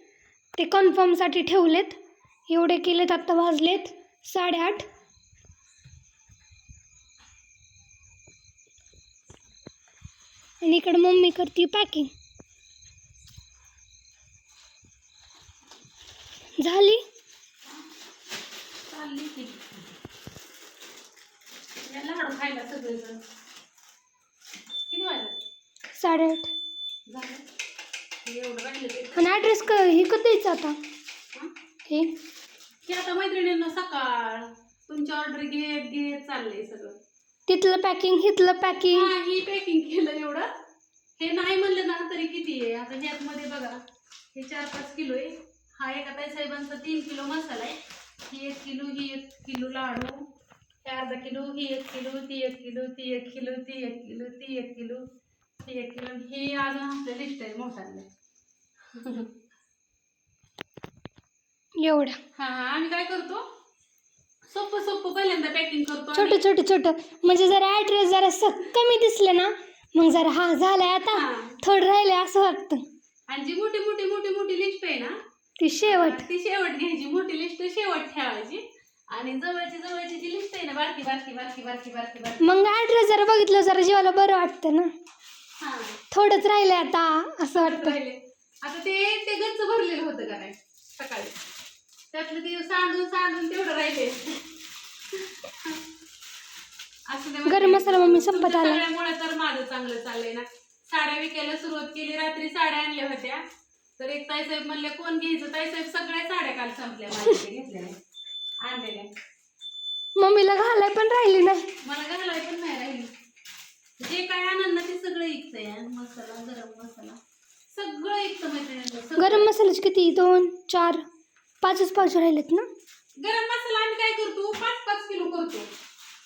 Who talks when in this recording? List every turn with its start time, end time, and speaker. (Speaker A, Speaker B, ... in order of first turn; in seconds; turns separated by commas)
Speaker A: 0.6-4.9, Speaker A: 10.6-12.1, Speaker A: 16.6-17.0, Speaker B: 18.9-19.9, Speaker B: 21.9-23.2, Speaker B: 24.9-25.4, Speaker A: 25.9-26.5, Speaker B: 27.1-27.4, Speaker B: 28.2-29.6, Speaker A: 29.1-30.8, Speaker A: 31.9-32.1, Speaker B: 32.9-37.0, Speaker A: 37.5-39.1, Speaker B: 38.9-40.5, Speaker B: 41.2-43.8, Speaker B: 44.3-47.8, Speaker B: 48.3-50.2, Speaker B: 50.8-55.0, Speaker B: 55.6-58.1, Speaker B: 58.9-59.3, Speaker A: 61.8-62.2, Speaker B: 62.3-63.4, Speaker B: 64.5-66.4, Speaker A: 66.1-72.8, Speaker B: 71.1-71.6, Speaker B: 73.3-75.1, Speaker A: 75.6-76.2, Speaker B: 75.9-82.5, Speaker A: 82.4-84.9, Speaker B: 85.6-85.9, Speaker A: 86.1-88.0, Speaker B: 87.6-91.3, Speaker B: 92.1-94.5, Speaker B: 95.2-95.8, Speaker B: 97.1-103.4, Speaker A: 97.5-98.8, Speaker B: 104.0-108.0, Speaker B: 108.6-109.1, Speaker A: 110.2-111.7, Speaker B: 111.8-113.1, Speaker B: 114.0-117.2, Speaker B: 117.7-119.5, Speaker A: 119.2-121.0, Speaker A: 121.6-122.7, Speaker B: 123.2-125.7